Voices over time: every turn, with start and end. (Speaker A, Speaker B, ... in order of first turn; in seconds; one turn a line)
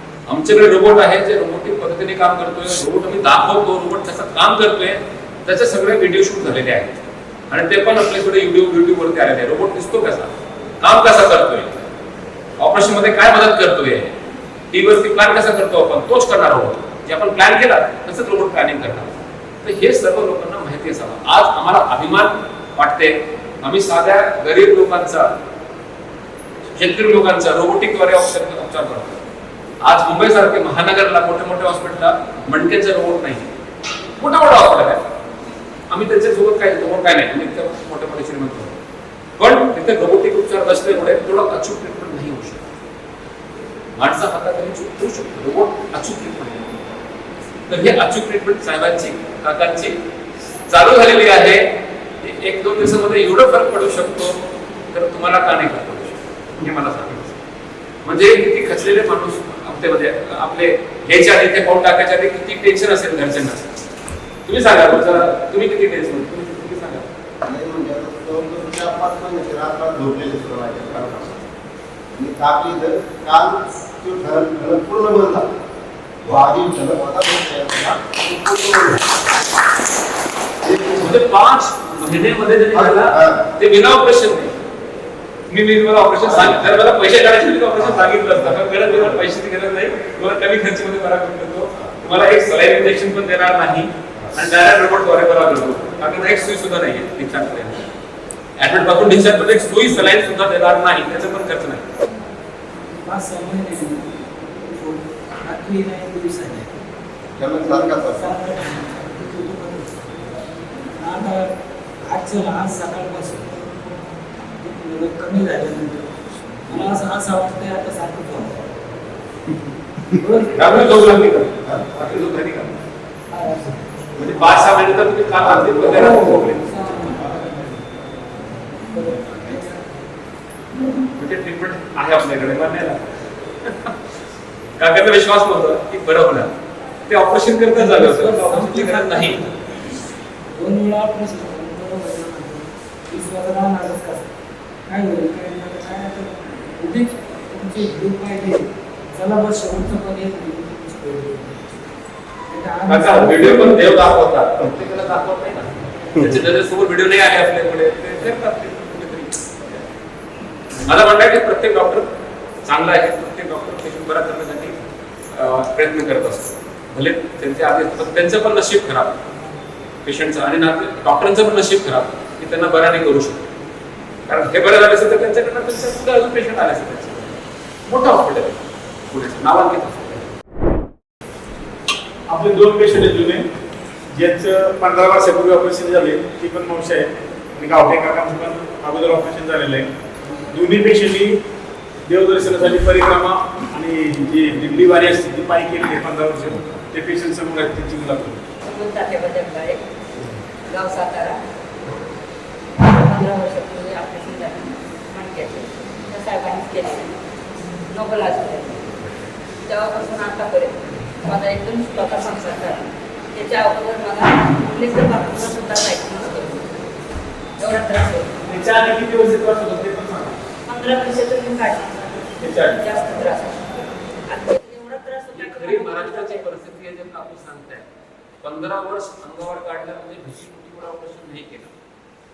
Speaker A: 0.3-7.0
Speaker A: 7.5-11.9
Speaker A: 12.6-14.2
Speaker A: 14.7-25.3
Speaker A: 26.7-29.2
Speaker A: 29.8-33.5
Speaker A: 34.2-35.0
Speaker A: 35.9-38.8
Speaker A: 39.4-42.6
Speaker A: 44.0-47.0
Speaker A: 47.7-50.0
Speaker A: 50.7-54.4
Speaker A: 54.9-57.4
Speaker A: 58.0-63.7
Speaker A: 64.5-67.1
Speaker B: 67.4-71.4
Speaker B: 72.2-75.5
Speaker B: 76.2-79.0
Speaker B: 80.6-81.1
Speaker A: 81.0-84.5
Speaker B: 82.7-83.4
Speaker A: 85.5-97.8
Speaker B: 86.3-86.7
Speaker B: 87.8-89.2
Speaker A: 98.6-101.8
Speaker C: 102.9-106.8
Speaker B: 107.4-108.3
Speaker C: 107.6-110.3
Speaker C: 111.0-111.5
Speaker C: 112.1-114.0
Speaker C: 114.6-116.1
Speaker C: 116.7-118.5
Speaker C: 120.2-121.0
Speaker A: 120.6-122.7
Speaker C: 123.3-124.2
Speaker A: 124.2-126.8
Speaker B: 125.5-125.8
Speaker C: 125.9-130.0
Speaker A: 131.2-133.1
Speaker A: 133.6-133.9
Speaker A: 134.8-136.5
Speaker A: 137.1-139.4
Speaker C: 137.8-139.6
Speaker C: 140.6-144.3
Speaker C: 144.9-151.6
Speaker C: 152.5-153.8
Speaker A: 152.9-159.8
Speaker A: 160.9-162.1
Speaker A: 162.6-164.8
Speaker A: 165.3-169.2
Speaker A: 170.1-173.4
Speaker A: 174.3-178.6
Speaker A: 179.1-180.3
Speaker D: 182.3-183.4
Speaker D: 184.1-189.9
Speaker D: 190.4-191.4
Speaker D: 192.1-198.4
Speaker E: 198.6-199.8
Speaker E: 200.7-201.4
Speaker E: 202.8-207.2
Speaker E: 207.9-208.9
Speaker E: 209.6-216.7
Speaker E: 217.6-218.3
Speaker D: 218.4-220.4
Speaker E: 220.7-223.7
Speaker D: 222.4-222.9
Speaker E: 224.3-226.5
Speaker A: 225.3-227.9
Speaker A: 228.4-231.7